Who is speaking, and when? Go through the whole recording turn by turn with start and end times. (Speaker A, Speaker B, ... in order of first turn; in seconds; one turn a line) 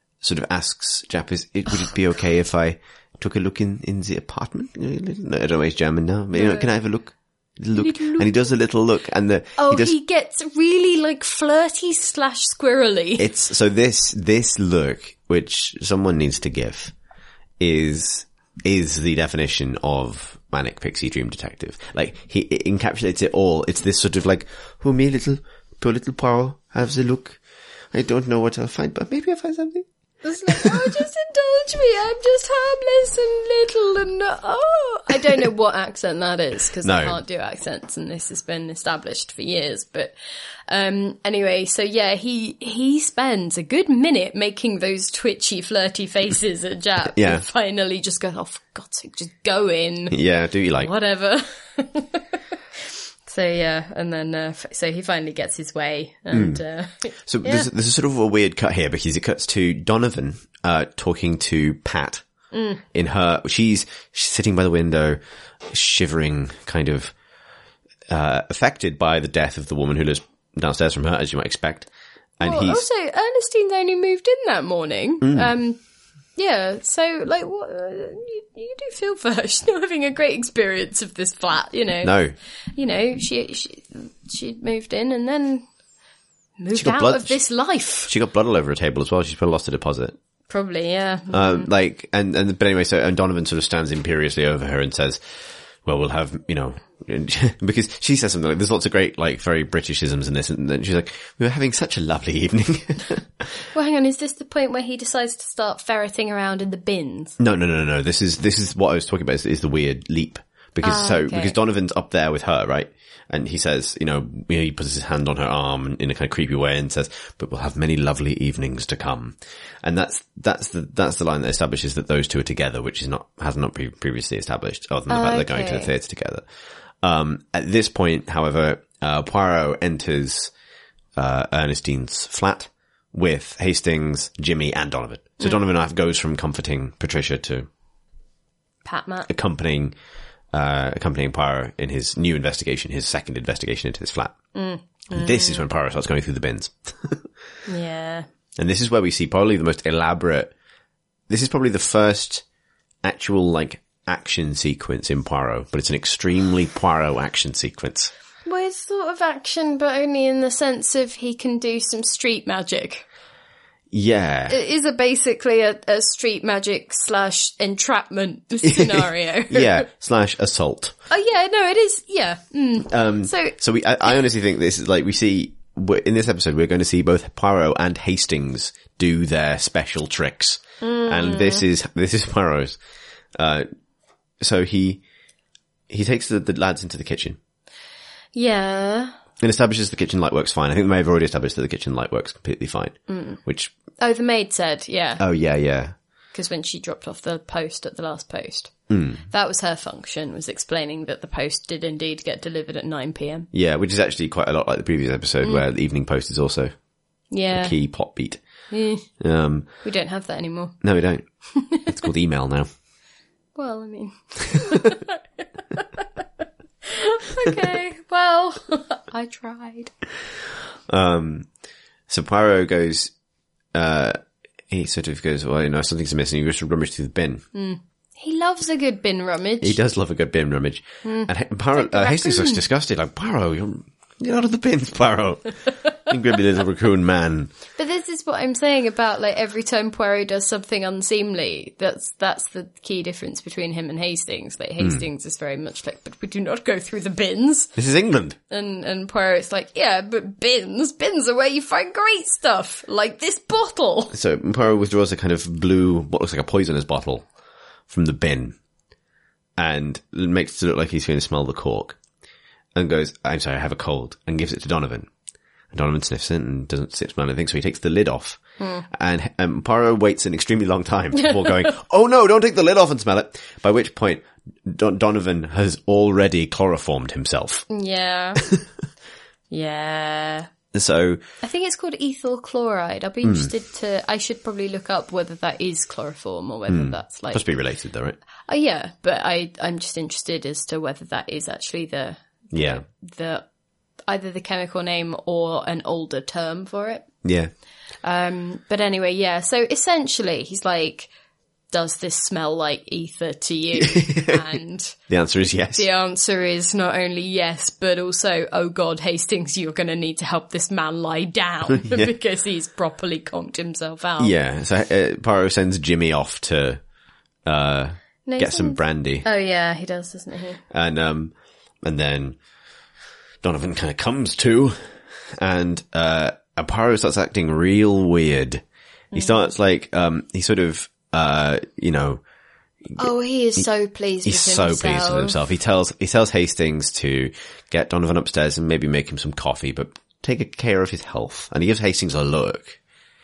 Speaker A: 0.2-9.9
Speaker B: 6.3-6.7
Speaker B: 7.8-8.3
Speaker B: 9.6-13.3
Speaker A: 13.2-16.9
Speaker A: 17.6-27.4
Speaker A: 27.9-29.9
Speaker B: 30.2-40.1
Speaker A: 30.5-30.9
Speaker A: 36.8-37.2
Speaker B: 40.7-50.2
Speaker A: 47.1-47.4
Speaker A: 50.1-50.9
Speaker B: 50.8-52.2
Speaker B: 52.8-57.7
Speaker A: 56.3-56.6
Speaker A: 57.2-62.2
Speaker B: 62.5-62.8
Speaker A: 62.9-67.1
Speaker A: 68.1-72.8
Speaker B: 72.4-75.8
Speaker A: 75.2-75.5
Speaker B: 76.4-82.2
Speaker A: 82.0-82.3
Speaker B: 82.8-85.6
Speaker B: 86.6-88.1
Speaker A: 86.7-87.3
Speaker A: 88.1-90.1
Speaker B: 90.5-91.7
Speaker A: 91.3-95.2
Speaker A: 95.8-103.5
Speaker B: 103.7-107.4
Speaker A: 107.4-126.4
Speaker B: 110.8-111.5
Speaker B: 125.1-125.9
Speaker A: 127.0-130.5
Speaker A: 131.2-137.7
Speaker B: 138.8-139.3
Speaker A: 139.3-139.9
Speaker A: 140.5-144.3
Speaker B: 144.5-145.7
Speaker A: 145.1-147.2
Speaker B: 147.7-148.2
Speaker A: 148.6-150.5
Speaker A: 151.3-152.4
Speaker A: 153.0-158.1
Speaker B: 158.4-163.0
Speaker A: 163.9-164.6
Speaker B: 164.5-169.8
Speaker A: 168.6-170.9
Speaker B: 171.1-173.6
Speaker A: 172.9-182.8
Speaker B: 180.8-181.6
Speaker A: 183.3-183.7
Speaker A: 184.4-185.0
Speaker A: 185.9-187.4
Speaker B: 188.3-189.1
Speaker A: 189.4-193.7
Speaker B: 193.1-193.4
Speaker B: 194.0-195.2
Speaker A: 195.2-195.9
Speaker B: 196.3-198.7
Speaker A: 198.9-199.2
Speaker B: 199.3-203.5
Speaker A: 203.5-206.7
Speaker B: 207.3-207.8
Speaker A: 207.5-208.4
Speaker B: 208.7-209.1
Speaker A: 209.2-209.7
Speaker B: 209.8-210.8
Speaker A: 210.8-211.2
Speaker B: 211.5-212.0
Speaker A: 211.8-212.7
Speaker B: 213.6-216.2
Speaker A: 214.6-214.9
Speaker B: 216.8-219.9
Speaker A: 220.9-221.5
Speaker A: 222.1-223.1
Speaker A: 223.7-224.2
Speaker A: 224.7-227.4
Speaker B: 227.5-229.8
Speaker A: 229.6-237.5
Speaker B: 231.0-232.6
Speaker B: 237.8-247.8
Speaker A: 247.8-248.4
Speaker B: 248.5-254.1
Speaker A: 254.1-257.2
Speaker A: 257.9-258.6
Speaker A: 259.6-262.0
Speaker A: 262.7-265.1
Speaker A: 265.7-277.7
Speaker B: 268.6-268.9
Speaker B: 271.1-271.7
Speaker B: 277.7-278.4
Speaker A: 278.4-278.6
Speaker B: 279.5-280.5
Speaker A: 280.7-281.2
Speaker B: 281.4-287.4
Speaker A: 283.2-283.5
Speaker A: 286.7-288.2
Speaker B: 288.5-293.4
Speaker A: 292.5-292.8
Speaker B: 294.1-297.1
Speaker A: 297.2-297.5
Speaker B: 298.0-301.1
Speaker B: 301.7-305.0
Speaker A: 303.8-304.4
Speaker A: 305.1-305.8
Speaker B: 305.7-314.3
Speaker A: 311.7-312.1
Speaker A: 314.2-316.8
Speaker A: 317.4-319.2
Speaker B: 318.2-320.6
Speaker A: 320.7-322.4
Speaker A: 323.4-324.8
Speaker A: 325.4-328.6
Speaker B: 329.1-329.5
Speaker A: 329.1-332.2
Speaker B: 333.0-335.4
Speaker A: 334.2-342.8